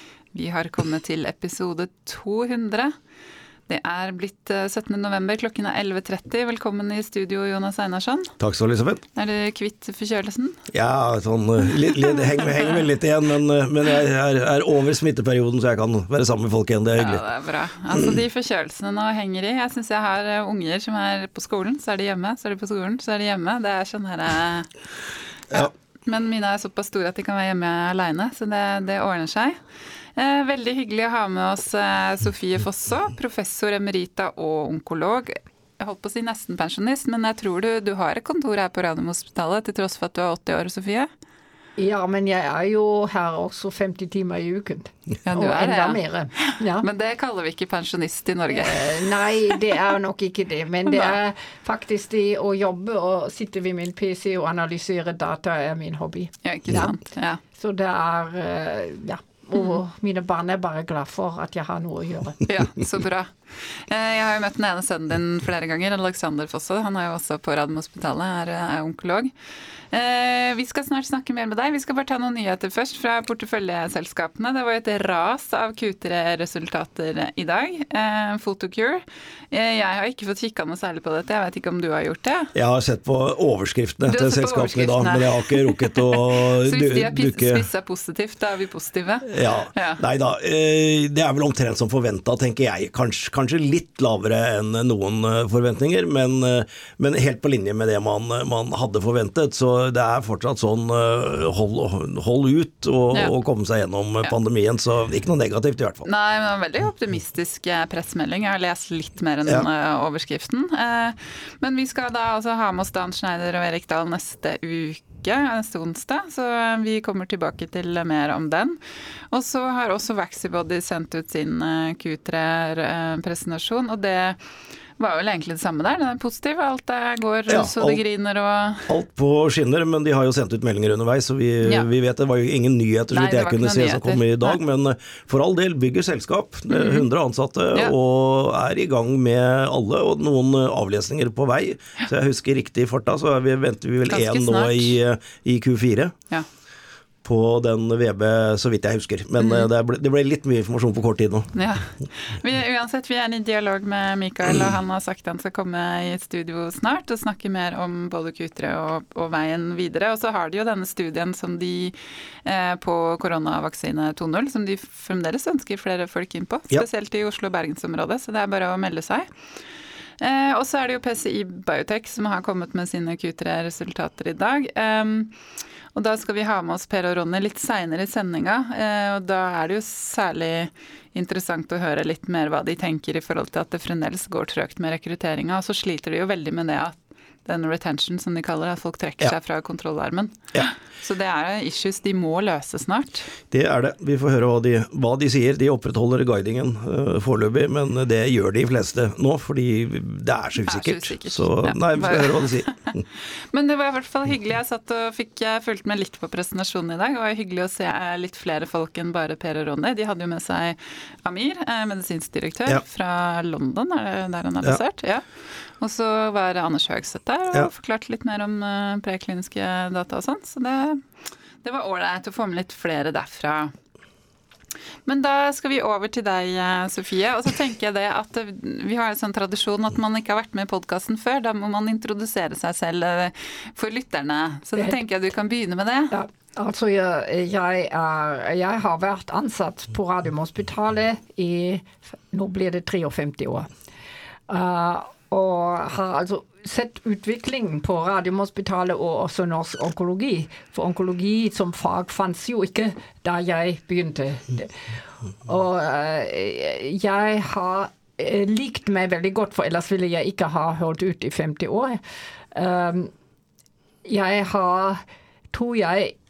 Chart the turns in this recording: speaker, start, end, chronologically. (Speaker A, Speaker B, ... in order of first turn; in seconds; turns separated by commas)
Speaker A: 0.3-2.9, Speaker A: 3.7-8.3, Speaker B: 8.4-9.0, Speaker A: 9.2-10.6, Speaker B: 10.7-17.2, Speaker A: 11.9-12.6, Speaker A: 16.9-24.7, Speaker A: 25.5-29.6, Speaker A: 30.1-41.1, Speaker C: 41.8-46.8, Speaker A: 45.2-49.1, Speaker C: 48.5-57.0, Speaker A: 50.9-51.1, Speaker A: 56.4-57.4, Speaker C: 57.5-62.4, Speaker A: 62.5-69.3, Speaker A: 69.9-82.5, Speaker B: 82.5-87.7, Speaker A: 84.0-90.0, Speaker B: 89.3-106.1, Speaker A: 106.0-118.8, Speaker A: 119.3-124.4, Speaker A: 125.0-128.9, Speaker B: 127.5-128.0, Speaker B: 128.9-146.1, Speaker A: 131.6-131.9, Speaker A: 133.1-134.6, Speaker A: 136.7-137.1, Speaker A: 144.1-144.9, Speaker B: 147.2-151.5, Speaker A: 149.4-149.7, Speaker A: 151.5-169.3, Speaker A: 170.2-175.3, Speaker A: 175.9-193.3, Speaker B: 193.5-203.0, Speaker A: 200.6-202.8, Speaker A: 203.5-221.0, Speaker A: 221.6-223.7, Speaker A: 225.1-236.1, Speaker C: 236.1-243.7, Speaker C: 244.5-254.9, Speaker C: 255.4-262.0, Speaker C: 262.5-263.1, Speaker C: 264.0-266.1